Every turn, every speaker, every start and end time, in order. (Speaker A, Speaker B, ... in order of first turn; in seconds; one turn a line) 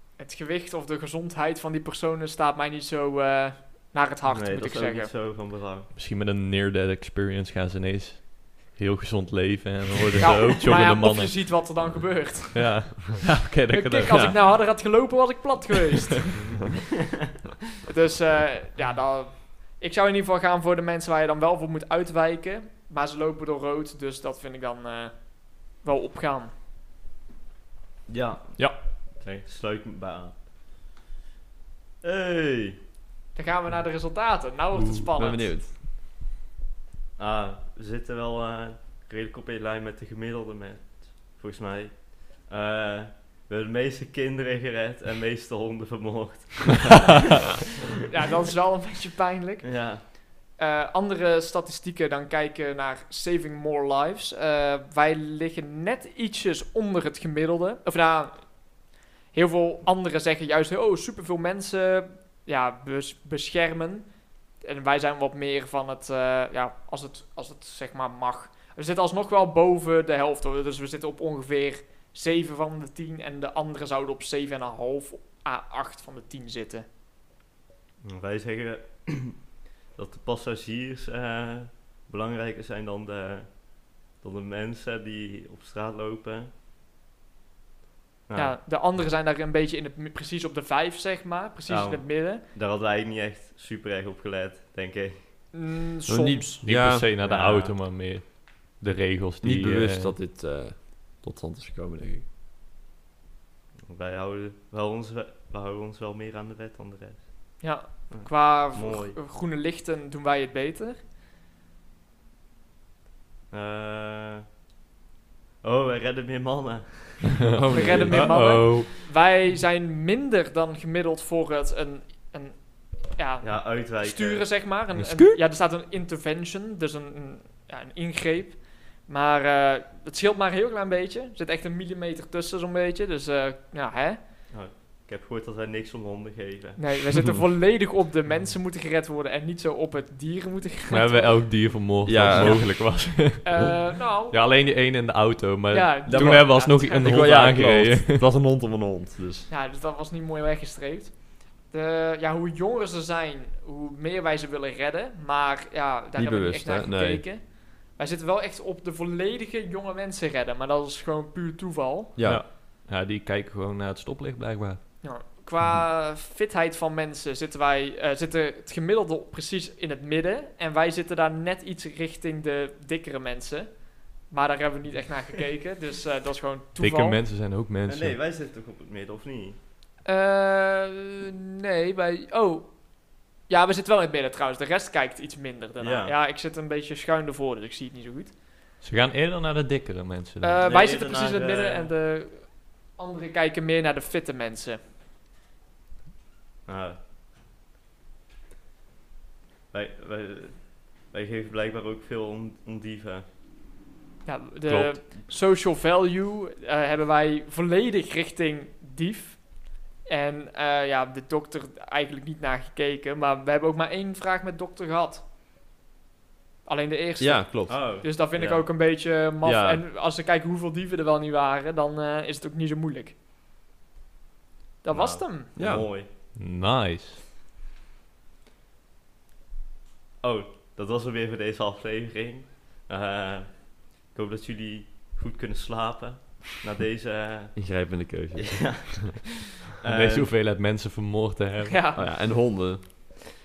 Speaker A: 0.2-5.1
Speaker B: 4.3-5.9
Speaker C: 5.9-11.9
Speaker A: 10.2-13.0
Speaker C: 12.5-14.6
Speaker A: 13.7-16.3
Speaker A: 17.9-26.5
Speaker B: 28.1-30.4
Speaker B: 32.0-32.8
Speaker A: 33.3-35.5
Speaker C: 34.7-35.0
Speaker D: 35.1-35.7
Speaker B: 37.2-47.0
Speaker A: 48.1-76.8
Speaker B: 49.6-50.0
Speaker B: 78.0-86.5
Speaker B: 88.3-88.6
Speaker A: 88.3-92.4
Speaker B: 91.7-95.5
Speaker A: 95.5-96.6
Speaker D: 96.1-97.1
Speaker C: 96.6-100.1
Speaker B: 97.2-97.7
Speaker D: 99.4-102.2
Speaker B: 103.9-109.2
Speaker A: 107.6-111.0
Speaker B: 113.5-114.4
Speaker B: 115.6-118.1
Speaker D: 117.5-118.6
Speaker A: 117.7-134.2
Speaker C: 117.9-118.9
Speaker B: 123.4-124.7
Speaker C: 125.0-125.3
Speaker B: 134.5-136.9
Speaker A: 136.8-141.7
Speaker C: 140.9-148.2
Speaker D: 142.0-143.1
Speaker A: 142.4-142.6
Speaker A: 143.4-144.4
Speaker A: 145.7-147.6
Speaker D: 146.1-149.5
Speaker A: 149.5-162.2
Speaker D: 156.2-157.3
Speaker D: 162.2-162.4
Speaker C: 162.2-164.8
Speaker A: 165.0-177.2
Speaker C: 176.8-178.2
Speaker B: 177.8-179.6
Speaker A: 180.0-188.3
Speaker B: 185.8-186.1
Speaker C: 188.8-190.6
Speaker A: 190.4-194.8
Speaker B: 190.6-191.9
Speaker B: 196.7-197.0
Speaker B: 199.7-203.2
Speaker A: 204.2-215.2
Speaker D: 204.7-205.0
Speaker A: 216.6-223.1
Speaker D: 217.2-218.0
Speaker B: 217.7-218.6
Speaker D: 219.4-219.8
Speaker A: 224.8-225.5
Speaker B: 224.9-226.1
Speaker D: 225.6-225.9
Speaker C: 226.3-227.2
Speaker B: 230.2-239.2
Speaker D: 237.5-239.0
Speaker B: 239.8-240.3
Speaker C: 239.9-241.8
Speaker A: 241.7-242.1
Speaker D: 241.9-242.8